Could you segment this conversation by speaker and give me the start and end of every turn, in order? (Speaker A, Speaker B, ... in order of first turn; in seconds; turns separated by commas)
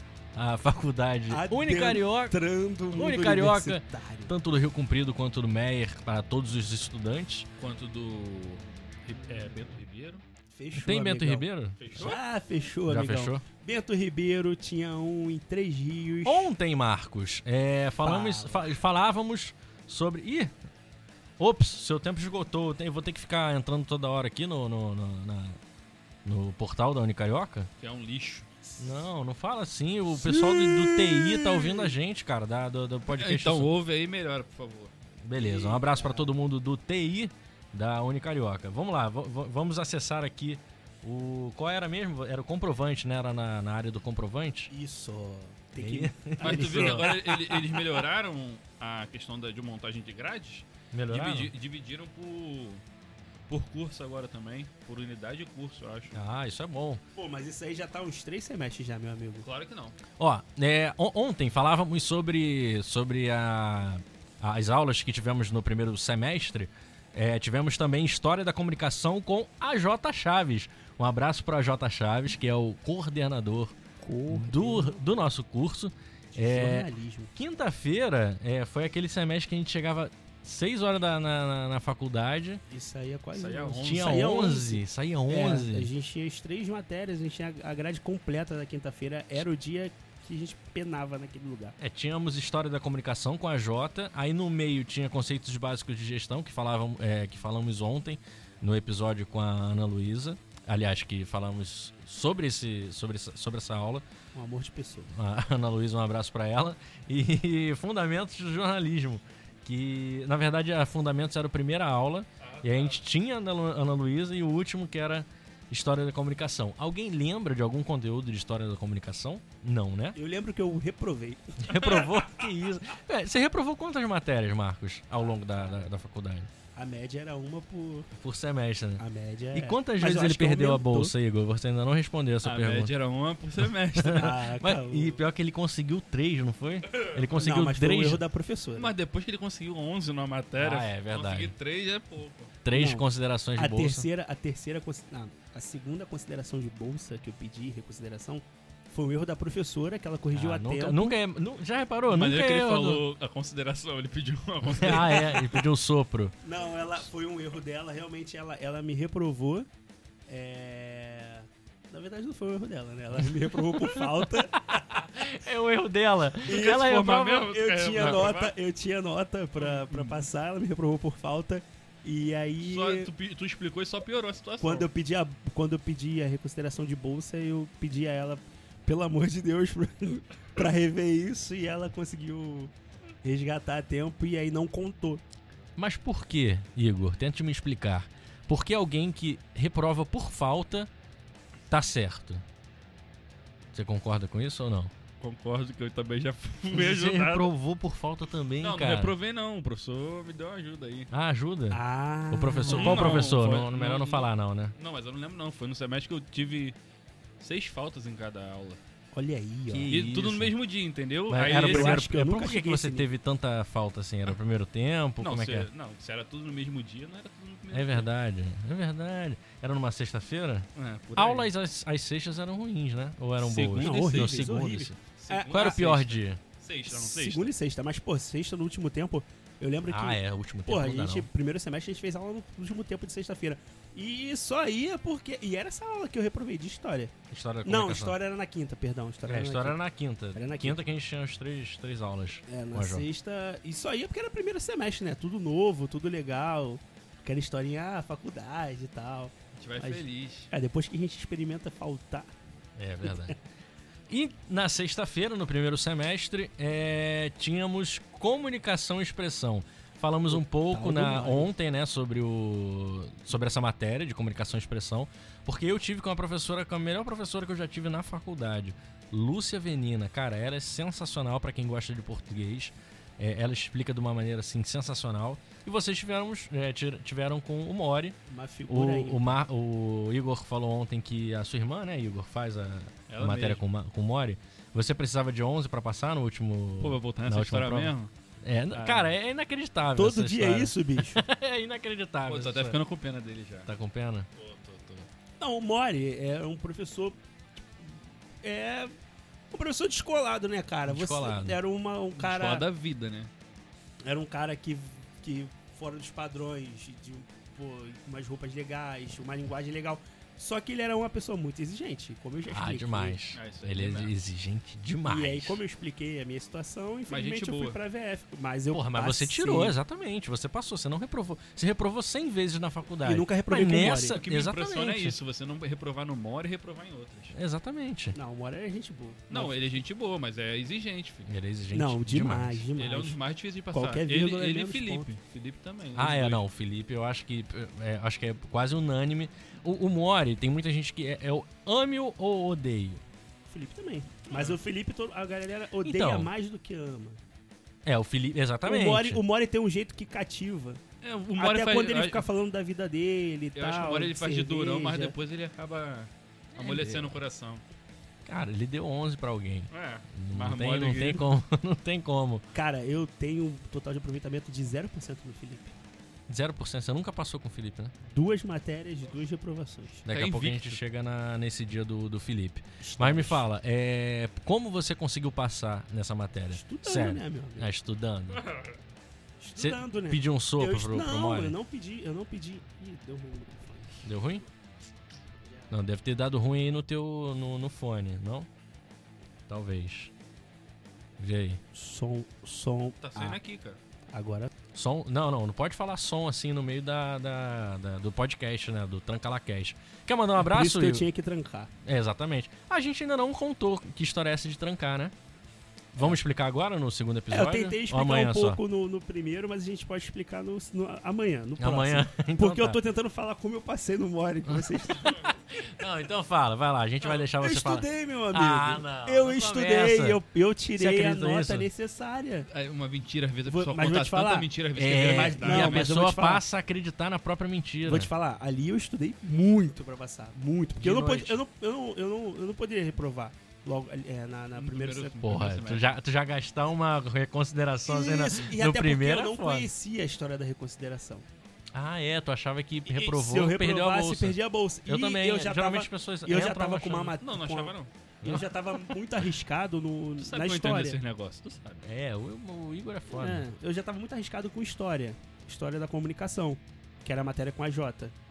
Speaker A: 0.3-2.4, Speaker B: 1.3-4.3, Speaker A: 2.9-7.5, Speaker C: 7.6-10.2, Speaker B: 10.5-16.5, Speaker A: 10.7-12.2, Speaker C: 11.8-12.2, Speaker A: 12.9-13.4, Speaker A: 16.2-20.5, Speaker B: 18.0-18.7, Speaker A: 21.4-25.6, Speaker A: 26.2-27.7, Speaker C: 27.8-28.5, Speaker A: 28.8-33.7, Speaker B: 30.1-31.9, Speaker C: 33.1-34.9, Speaker A: 35.2-44.7, Speaker B: 35.3-36.3, Speaker B: 44.7-47.4, Speaker A: 45.8-47.6, Speaker C: 46.4-52.8, Speaker A: 50.9-51.5, Speaker C: 53.5-56.1, Speaker A: 56.1-57.0, Speaker B: 57.2-59.5, Speaker C: 59.4-60.0, Speaker A: 60.2-73.8, Speaker B: 74.0-75.0, Speaker A: 74.3-82.6, Speaker B: 76.3-77.3, Speaker B: 82.7-91.8, Speaker C: 83.3-84.1, Speaker A: 83.8-85.9, Speaker A: 91.8-104.0, Speaker B: 104.3-105.1, Speaker A: 105.1-120.2, Speaker C: 112.4-113.0, Speaker B: 120.2-122.4, Speaker A: 121.6-126.5, Speaker B: 125.3-125.9, Speaker B: 126.8-128.1, Speaker A: 128.2-129.0, Speaker B: 129.0-131.1, Speaker A: 129.5-132.9, Speaker C: 132.4-134.3, Speaker A: 133.9-138.2, Speaker B: 134.1-135.2, Speaker B: 137.3-138.9, Speaker C: 138.7-142.5, Speaker A: 140.6-141.6, Speaker A: 142.6-144.1, Speaker B: 142.7-151.2, Speaker A: 150.3-153.0, Speaker C: 152.1-155.7, Speaker A: 154.7-156.3, Speaker B: 156.4-159.7, Speaker B: 160.3-165.2, Speaker A: 163.7-168.2, Speaker C: 166.5-168.6, Speaker B: 166.5-166.8, Speaker B: 167.4-173.1, Speaker C: 169.6-170.3, Speaker C: 172.6-174.9, Speaker B: 174.6-182.7, Speaker B: 183.2-185.2, Speaker A: 185.8-190.9, Speaker A: 191.7-192.4, Speaker A: 193.7-194.9, Speaker C: 195.2-197.5, Speaker A: 196.7-199.2, Speaker C: 198.6-201.1, Speaker A: 201.1-204.8, Speaker B: 201.7-203.3, Speaker C: 202.7-206.8, Speaker C: 207.4-208.8, Speaker B: 209.1-209.9, Speaker A: 209.7-210.5, Speaker C: 209.9-212.0, Speaker A: 211.3-215.7, Speaker B: 211.5-213.1, Speaker C: 215.2-218.1, Speaker A: 217.7-224.9, Speaker C: 220.8-221.5, Speaker C: 223.4-227.5, Speaker B: 223.7-225.6, Speaker A: 225.5-226.4, Speaker B: 226.9-237.1, Speaker A: 229.9-231.3, Speaker A: 237.3-238.2, Speaker B: 237.6-239.8, Speaker A: 239.3-243.1, Speaker B: 240.3-240.8, Speaker B: 242.5-252.3, Speaker C: 249.6-250.5, Speaker A: 252.8-253.3, Speaker B: 253.0-253.3, Speaker A: 254.1-278.2, Speaker B: 260.3-261.5, Speaker B: 278.3-279.4, Speaker A: 278.7-292.8, Speaker C: 283.1-283.6, Speaker C: 286.8-288.1, Speaker C: 288.7-289.1, Speaker B: 289.9-291.2, Speaker C: 292.2-293.7, Speaker A: 293.6-294.3, Speaker C: 294.4-295.1, Speaker B: 295.4-297.2, Speaker B: 298.4-298.9, Speaker B: 299.5-302.7, Speaker A: 300.9-301.6, Speaker C: 302.1-303.3, Speaker B: 304.1-313.2, Speaker A: 312.5-315.6, Speaker C: 313.3-314.1, Speaker B: 315.0-319.8, Speaker C: 317.1-317.8, Speaker A: 318.7-325.2, Speaker B: 323.0-324.2, Speaker C: 324.0-327.3, Speaker A: 327.3-328.2, Speaker B: 328.1-329.8, Speaker C: 329.3-331.3, Speaker A: 331.3-332.6, Speaker B: 331.7-333.2, Speaker C: 332.8-336.4, Speaker B: 333.7-335.1, Speaker A: 336.0-343.0, Speaker B: 343.5-347.2, Speaker C: 344.3-344.6, Speaker A: 345.8-346.3, Speaker A: 347.9-349.2, Speaker B: 348.6-350.8, Speaker C: 351.0-352.3, Speaker B: 351.4-355.2, Speaker C: 353.6-357.6, Speaker A: 356.6-357.2, Speaker A: 358.3-362.4, Speaker C: 359.7-361.3, Speaker B: 362.5-365.7, Speaker A: 366.3-367.9, Speaker B: 368.1-370.0, Speaker A: 370.1-378.4, Speaker C: 370.1-370.8, Speaker B: 372.8-373.4, Speaker B: 376.5-377.7, Speaker C: 378.4-378.7, Speaker B: 379.4-384.1, Speaker A: 379.6-381.6, Speaker A: 384.0-384.4, Speaker A: 385.7-388.5, Speaker A: 389.5-390.1, Speaker A: 391.2-391.6, Speaker B: 391.7-393.4, Speaker C: 393.0-393.8, Speaker B: 394.1-394.5, Speaker A: 394.8-401.1, Speaker B: 400.4-401.7, Speaker A: 401.8-405.1, Speaker A: 405.9-408.6, Speaker B: 407.3-415.3, Speaker A: 411.6-412.8, Speaker A: 414.5-420.2, Speaker B: 417.1-422.5, Speaker A: 420.8-421.7, Speaker C: 422.5-425.9, Speaker B: 423.5-426.4, Speaker A: 424.8-428.1, Speaker B: 427.8-435.3, Speaker A: 430.8-431.4, Speaker C: 434.6-435.9, Speaker A: 435.2-439.7, Speaker B: 437.8-441.2, Speaker A: 441.7-447.2, Speaker B: 442.9-451.0, Speaker C: 447.2-447.9, Speaker A: 448.2-448.8, Speaker C: 450.2-451.8, Speaker A: 451.8-453.5, Speaker B: 453.1-458.1